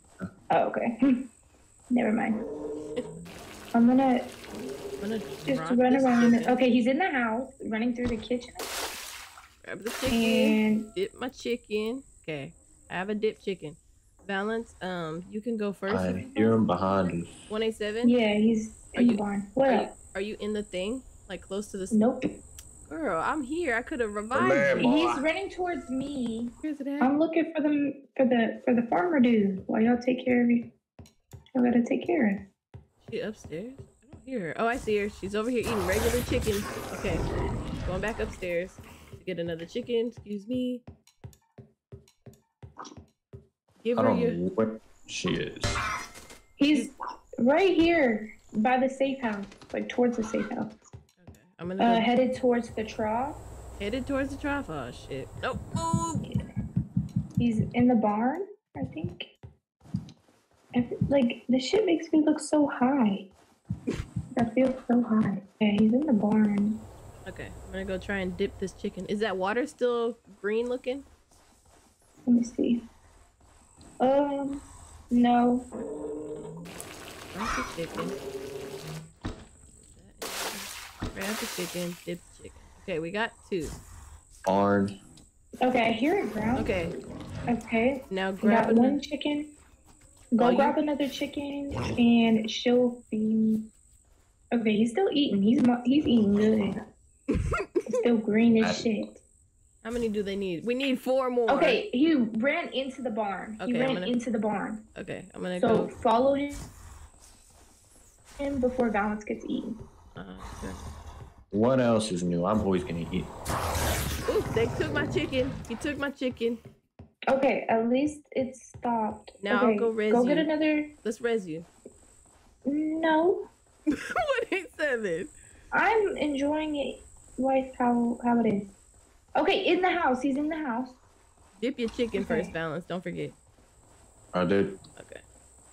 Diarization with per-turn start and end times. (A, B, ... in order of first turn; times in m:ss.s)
0:00.5-0:01.2 A
0:01.9-0:02.4 A
0:03.7-0:04.3 A
0:05.0-0:06.6 B
0:05.4-0:08.7 A
0:09.6-0:16.3 B
0:10.1-0:10.9 A
0:15.9-0:17.3 C
0:16.3-0:17.1 A
0:17.5-0:18.1 B
0:18.0-0:19.9 A
0:18.9-0:22.1 B
0:21.9-0:22.2 A
0:22.8-0:24.8 B
0:24.3-0:25.2 C
0:24.8-0:30.7 A
0:26.6-0:27.1 B
0:31.5-0:32.4 A
0:33.0-0:37.2 B
0:37.8-0:40.8 B
0:43.8-0:44.4 B
0:43.9-0:45.8 C
0:46.6-0:50.7 A
0:51.2-0:52.1 B
0:51.8-0:53.4 A
0:53.8-0:56.2 B
0:57.4-0:59.3 A
1:00.7-1:03.3 A
1:04.4-1:06.8 A
1:07.2-1:11.0 B
1:12.2-1:12.8 A
1:14.0-1:15.7 A
1:17.3-1:18.2 B
1:19.8-1:23.8 B
1:24.4-1:24.9 C
1:25.6-1:26.7 A
1:26.6-1:26.9 B
1:27.5-1:29.5 A
1:28.1-1:29.0 B
1:30.3-1:33.7 A
1:30.4-1:30.8 B
1:34.5-1:36.7 A
1:37.3-1:37.8 B
1:37.9-1:39.2 A
1:39.8-1:41.8 B
1:41.5-1:44.8 A
1:43.6-1:44.1 B
1:44.9-1:45.9 B
1:45.6-1:46.6 A
1:48.4-1:49.8 A
1:50.1-1:50.9 B
1:51.5-1:53.3 C
1:54.3-1:56.6 B
1:57.3-2:00.9 A
1:59.4-2:00.5 B
2:01.0-2:01.7 B
2:02.6-2:03.4 A
2:03.9-2:05.3 B
2:05.7-2:08.7 A
2:09.4-2:11.0 A
2:11.6-2:13.3 B
2:12.2-2:12.5 A
2:14.3-2:14.8 C
2:15.0-2:15.2 B